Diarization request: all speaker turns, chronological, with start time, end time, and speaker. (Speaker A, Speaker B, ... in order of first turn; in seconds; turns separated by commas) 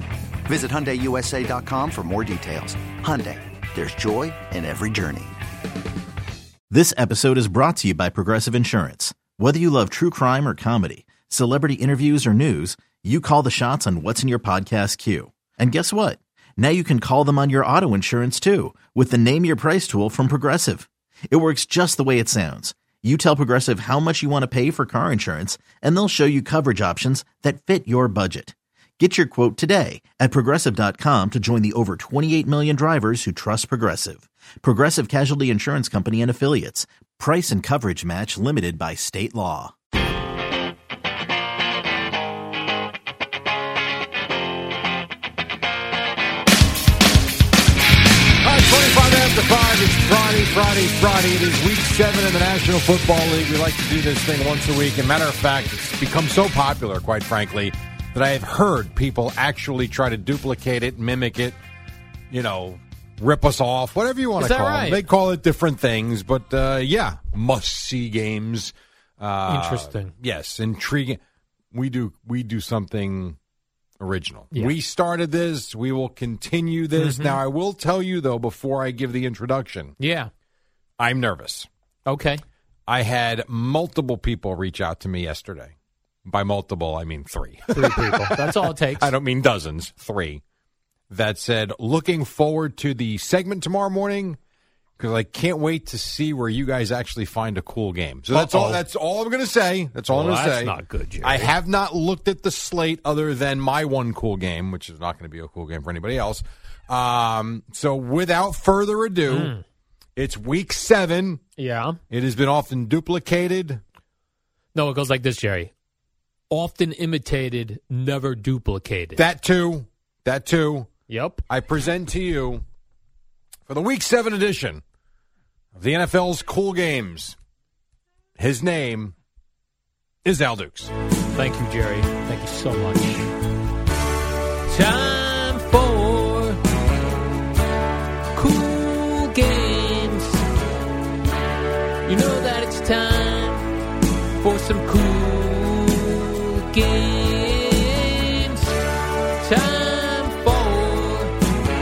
Speaker A: 0.5-5.4, Speaker B: 6.7-39.8, Speaker C: 48.4-61.6, Speaker C: 62.3-71.2, Speaker D: 64.4-65.1, Speaker D: 69.5-70.1, Speaker C: 71.7-73.4, Speaker C: 74.0-80.0, Speaker D: 77.0-77.4, Speaker D: 80.0-80.3, Speaker C: 81.0-81.7, Speaker D: 82.1-82.4, Speaker C: 82.9-85.7, Speaker C: 86.2-90.4, Speaker D: 87.7-89.1, Speaker C: 91.1-94.4, Speaker C: 95.0-109.5, Speaker D: 98.3-98.8, Speaker D: 100.1-101.5, Speaker D: 109.3-109.6, Speaker C: 110.2-111.4, Speaker D: 111.6-112.0, Speaker C: 112.1-113.8, Speaker D: 114.7-115.7, Speaker D: 116.5-119.2, Speaker C: 119.2-120.9, Speaker D: 121.1-121.4, Speaker C: 121.5-122.6, Speaker C: 123.7-124.8, Speaker C: 125.8-127.4, Speaker C: 128.4-129.1, Speaker C: 130.2-130.9, Speaker D: 131.3-133.3, Speaker D: 134.7-136.6, Speaker D: 138.3-140.5, Speaker D: 142.1-143.7, Speaker D: 144.4-148.8, Speaker D: 149.4-151.3